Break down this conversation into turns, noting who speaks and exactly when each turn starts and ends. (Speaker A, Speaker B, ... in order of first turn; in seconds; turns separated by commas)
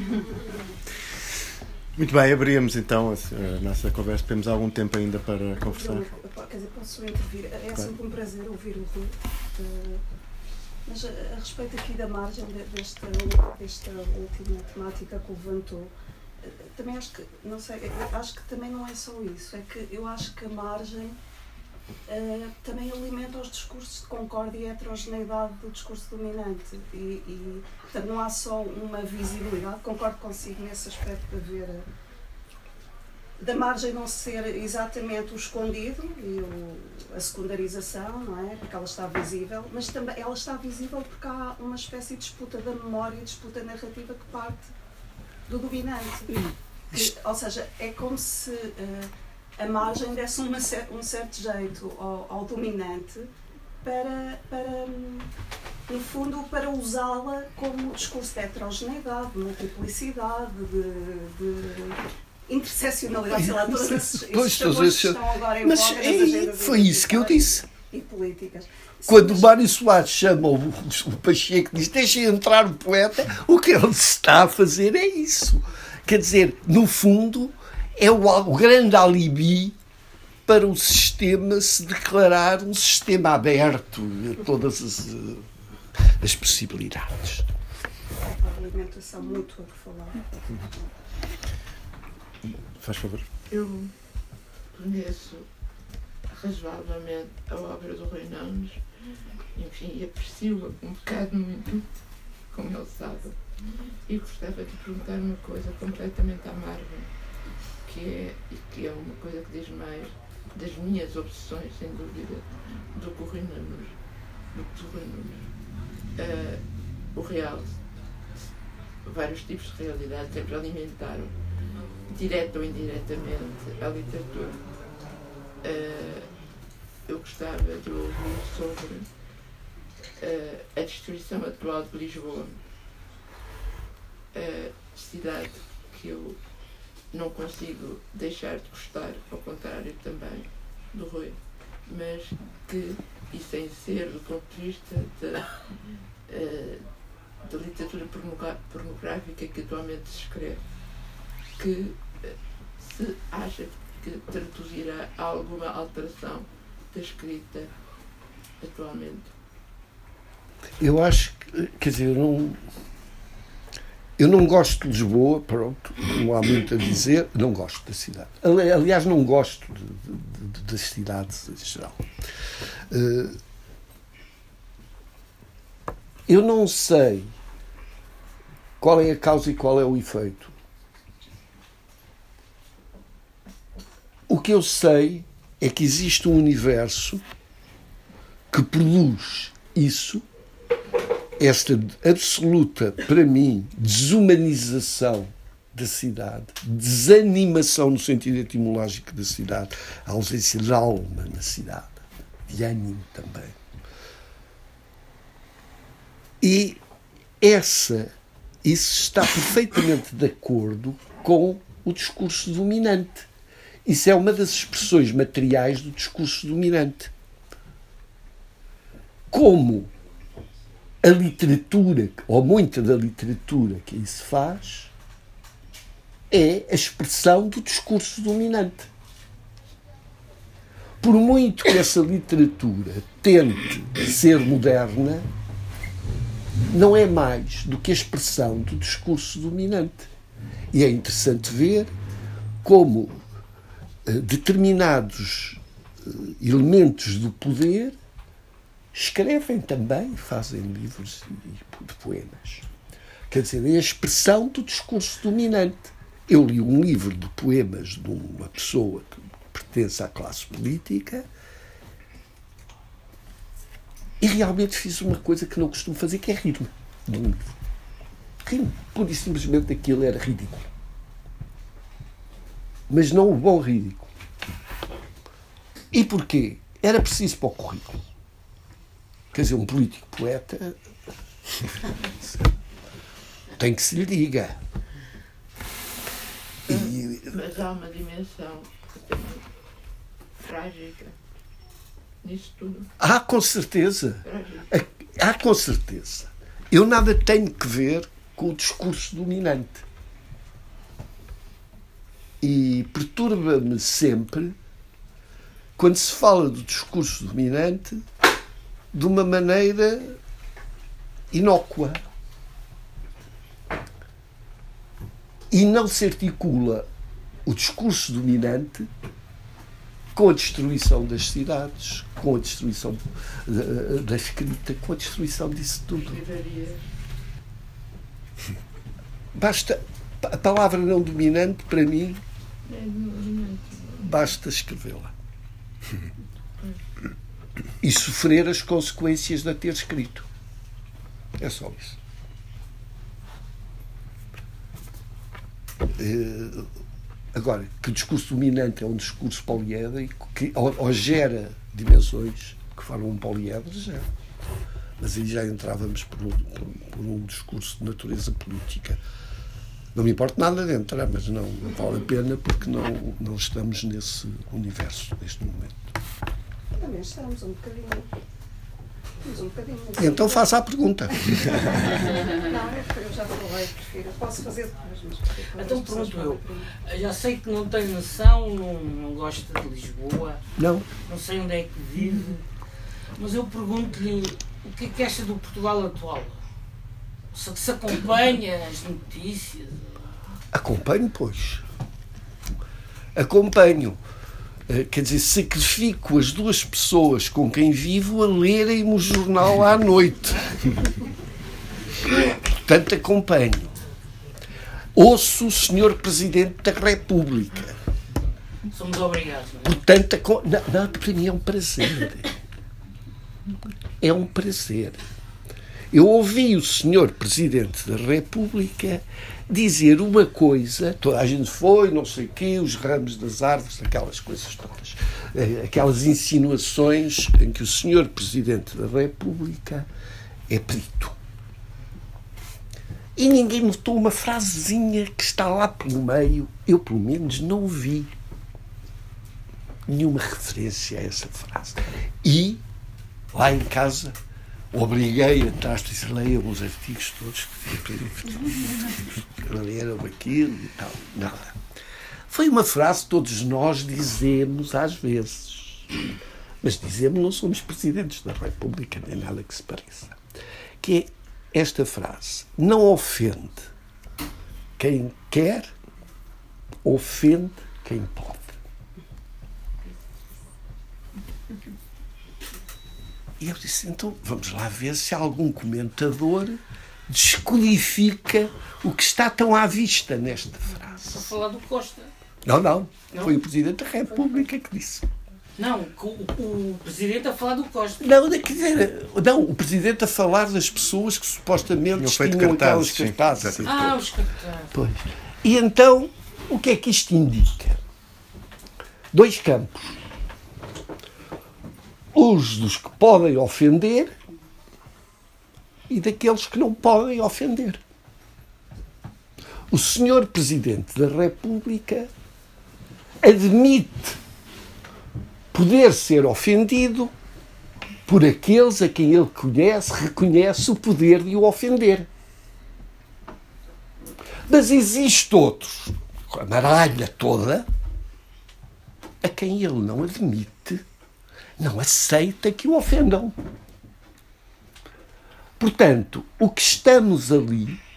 Speaker A: 1.9-6.1, Speaker B: 5.6-10.0, Speaker B: 10.8-21.2, Speaker B: 22.1-31.8, Speaker B: 33.4-44.7, Speaker B: 45.5-46.3, Speaker B: 46.9-53.3, Speaker B: 53.8-55.3, Speaker B: 55.9-69.5, Speaker C: 63.3-67.7, Speaker C: 69.1-79.8, Speaker C: 80.5-85.5, Speaker C: 86.2-87.5, Speaker B: 88.2-90.2, Speaker A: 92.5-93.2, Speaker D: 93.5-93.9, Speaker D: 94.7-95.5, Speaker D: 96.3-98.8, Speaker D: 99.5-101.9, Speaker D: 102.5-103.4, Speaker D: 104.0-107.1, Speaker D: 107.8-114.0, Speaker D: 114.5-115.5, Speaker D: 116.1-117.8, Speaker D: 119.0-121.3, Speaker D: 122.1-124.6, Speaker D: 125.6-126.3, Speaker D: 127.0-129.1, Speaker D: 130.2-132.6, Speaker D: 134.3-136.4, Speaker D: 137.1-145.5, Speaker D: 146.2-146.8, Speaker D: 147.4-150.6, Speaker D: 151.5-157.7, Speaker D: 158.6-159.3, Speaker C: 160.8-162.6, Speaker C: 164.2-172.0, Speaker C: 172.9-173.4, Speaker C: 176.3-177.3, Speaker C: 178.8-180.5, Speaker C: 184.3-187.2, Speaker C: 188.5-190.2, Speaker C: 191.4-203.6, Speaker C: 206.4-206.8, Speaker C: 207.4-213.3, Speaker C: 213.8-217.1, Speaker C: 219.3-219.9, Speaker C: 221.0-224.9, Speaker C: 226.3-228.9, Speaker C: 231.0-235.2, Speaker C: 236.7-240.1, Speaker C: 240.7-241.9, Speaker C: 242.6-243.2, Speaker C: 244.0-247.9, Speaker C: 248.9-252.7, Speaker C: 253.3-261.2, Speaker C: 264.2-267.5, Speaker C: 268.4-270.7, Speaker C: 272.9-274.1, Speaker C: 275.9-278.0, Speaker C: 279.3-280.8, Speaker C: 283.6-284.6, Speaker C: 286.7-287.4, Speaker D: 286.7-289.4, Speaker D: 290.4-291.1, Speaker D: 292.2-292.9, Speaker C: 293.0-299.8, Speaker D: 294.2-294.7, Speaker C: 302.4-304.5, Speaker C: 305.8-308.0, Speaker C: 308.9-310.2, Speaker C: 311.3-312.0, Speaker C: 315.5-316.9, Speaker C: 317.4-318.9, Speaker C: 320.1-326.2, Speaker D: 326.0-326.9, Speaker C: 329.3-332.2, Speaker D: 332.6-334.2, Speaker C: 334.0-335.1, Speaker C: 337.8-340.3, Speaker C: 341.4-342.0, Speaker C: 345.9-346.7, Speaker C: 347.3-354.1, Speaker C: 355.0-359.0, Speaker C: 359.9-365.9, Speaker B: 366.8-368.1, Speaker B: 369.2-370.5, Speaker C: 370.0-371.6, Speaker B: 371.7-376.7, Speaker E: 375.5-380.4, Speaker C: 380.6-380.9, Speaker E: 381.1-382.4, Speaker E: 383.2-386.4, Speaker E: 387.3-389.9, Speaker C: 390.5-391.6, Speaker C: 393.1-394.0, Speaker C: 394.7-400.8, Speaker C: 402.1-403.8, Speaker C: 404.9-407.8, Speaker E: 408.7-409.8, Speaker C: 409.6-412.3, Speaker C: 414.0-415.0, Speaker C: 415.9-429.9, Speaker C: 430.5-431.2, Speaker C: 433.1-438.1, Speaker C: 439.9-442.6, Speaker C: 443.3-444.1, Speaker C: 444.7-451.6, Speaker C: 452.3-455.9, Speaker C: 456.6-460.2, Speaker C: 460.8-463.7, Speaker C: 464.8-465.7, Speaker C: 466.8-468.6, Speaker C: 473.4-481.3, Speaker E: 481.0-482.1, Speaker C: 482.4-485.1, Speaker E: 485.6-488.1, Speaker C: 488.0-494.0, Speaker A: 491.9-493.8, Speaker E: 493.6-494.7, Speaker C: 494.7-497.8, Speaker C: 499.1-500.0, Speaker C: 502.1-504.1, Speaker C: 505.9-507.8, Speaker C: 509.7-512.1, Speaker C: 513.2-514.2, Speaker C: 515.5-517.1, Speaker C: 518.0-522.1, Speaker C: 524.5-527.6, Speaker C: 529.2-530.8, Speaker C: 531.6-533.4, Speaker C: 535.6-537.8